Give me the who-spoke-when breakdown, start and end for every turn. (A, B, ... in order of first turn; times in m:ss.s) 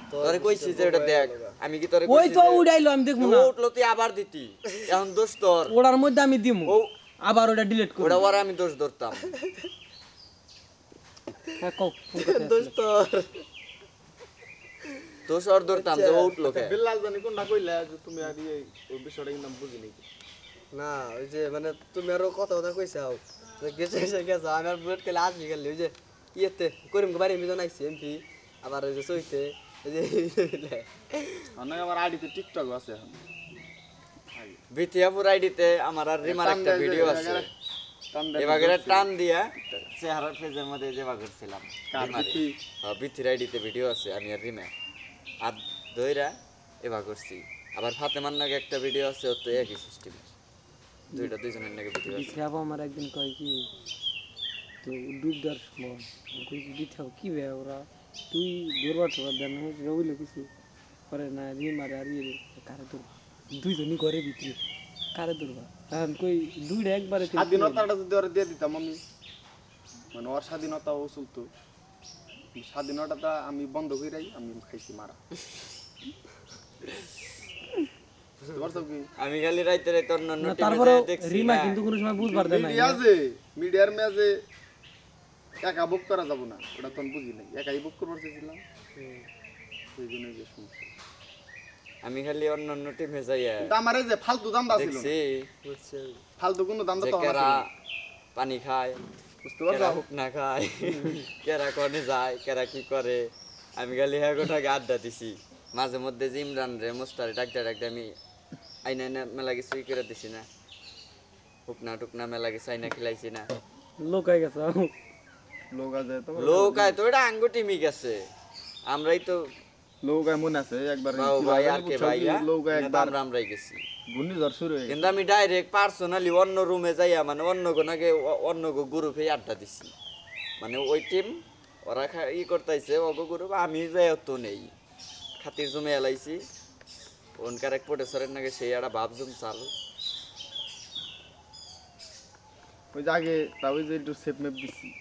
0:00.1-0:01.6 A
0:00.2-0:02.7 B
0:02.1-0:03.5 C
0:03.2-0:05.8 B
0:05.7-0:08.3 C
0:08.0-0:09.3 B
0:11.6-0:12.8 C
0:12.2-0:13.4 A
0:15.3-0:16.8 B
0:15.7-0:16.4 A
0:16.4-0:20.0 D
0:20.7-0:31.5 A
0:31.5-0:33.2 D
0:34.4-0:34.6 D
0:34.7-0:37.5 B
0:36.2-0:37.5 D
0:38.1-0:39.1 D
0:38.4-0:44.7 B
0:41.9-0:42.6 D
0:45.4-0:50.3 B
0:51.1-0:52.4 B
0:52.0-0:53.7 C
0:54.8-1:00.5 C
1:01.1-1:04.6 C
1:05.2-1:07.9 C
1:07.2-1:09.0 D
1:10.1-1:11.5 D
1:12.6-1:15.2 D
1:18.5-1:19.1 D
1:19.2-1:21.8 B
1:20.4-1:23.0 C
1:22.2-1:24.4 D
1:25.6-1:28.6 D
1:29.0-1:29.3 A
1:30.0-1:30.9 D
1:32.0-1:33.7 B
1:33.6-1:35.1 D
1:34.7-1:35.5 B
1:35.6-1:36.2 A
1:36.4-1:37.6 D
1:37.0-1:37.7 B
1:38.4-1:39.0 B
1:39.4-1:40.0 D
1:39.7-1:48.1 B
1:41.0-1:41.2 C
1:48.8-1:50.5 B
1:51.7-1:53.5 B
1:54.0-1:54.9 C
1:55.7-1:57.0 D
1:56.4-1:58.2 B
1:58.9-1:59.4 B
2:00.0-2:03.2 D
2:01.1-2:03.8 B
2:04.1-2:05.1 D
2:04.9-2:09.9 B
2:10.6-2:11.3 B
2:11.8-2:14.7 B
2:15.4-2:16.4 B
2:17.4-2:19.7 B
2:22.9-2:24.9 D